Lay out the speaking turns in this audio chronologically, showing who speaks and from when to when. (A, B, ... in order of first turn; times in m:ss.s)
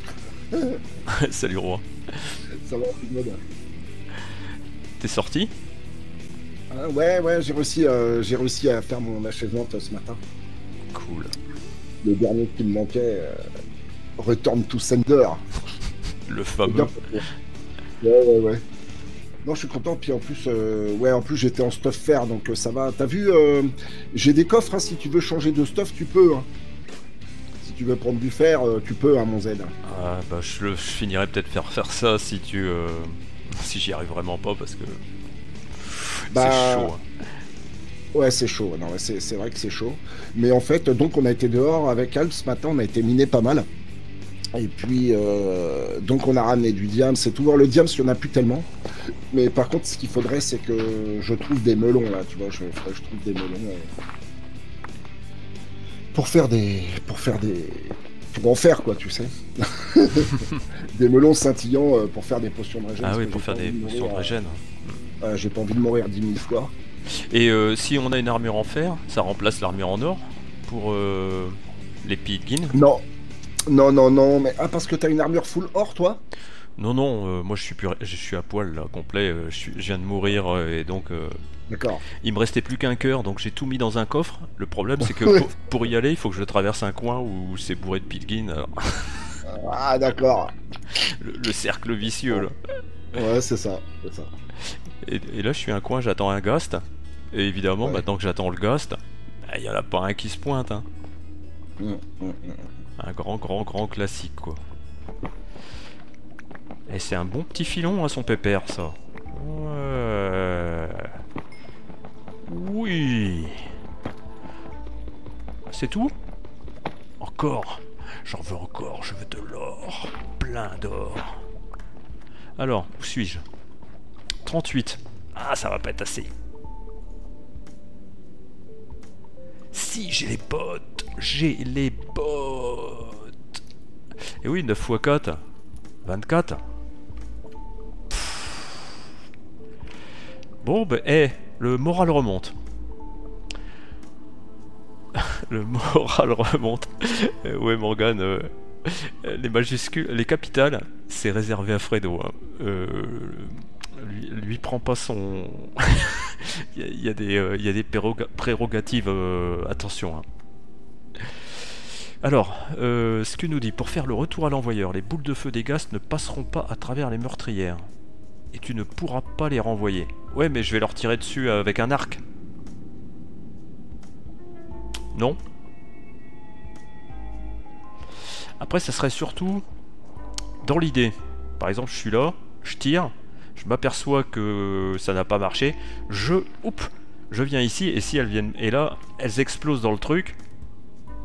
0:00.5-0:00.8 A
0:01.1-0:02.4 B
0:02.5-0:03.4 A
0:05.0-0:05.5 B
0:06.7-0:10.2 A
0:10.9-0:11.4 B
0:12.0-0:13.5 A
0:14.2-0:15.4 A
0:16.3-0:17.0 B
0:16.6-0:17.2 A
0:18.0-0:18.6 A
0:19.4-0:26.5 A
0:27.6-0:29.7 A
0:29.8-0:35.0 B
0:35.8-0:37.0 B
0:36.3-0:36.9 A
0:38.1-0:43.7 A
0:44.5-0:48.7 A
0:49.3-0:53.9 A
0:56.1-1:04.4 A
1:03.0-1:05.0 B
1:05.2-1:06.7 A
1:07.1-1:12.8 B
1:12.7-1:13.0 A
1:13.7-1:16.2 A
1:16.8-1:21.4 B
1:21.7-1:22.0 A
1:22.2-1:29.4 B
1:29.4-1:30.5 A
1:30.9-1:32.6 B
1:33.1-1:34.3 A
1:34.6-1:40.9 B
1:41.8-1:42.7 A
1:43.0-1:44.6 B
1:46.9-1:51.2 B
1:52.5-1:53.7 B
1:55.7-1:56.2 B
1:57.2-2:01.4 B
2:02.6-2:03.4 B
2:04.4-2:06.3 B
2:09.7-2:13.6 B
2:14.4-2:15.4 B
2:16.0-2:16.6 B
2:18.1-2:18.8 B
2:20.6-2:22.6 B
2:25.2-2:40.3 B
2:41.2-2:47.9 B
2:48.5-2:52.2 B
2:55.1-2:55.4 B
2:58.6-2:59.6 B
3:00.6-3:10.4 B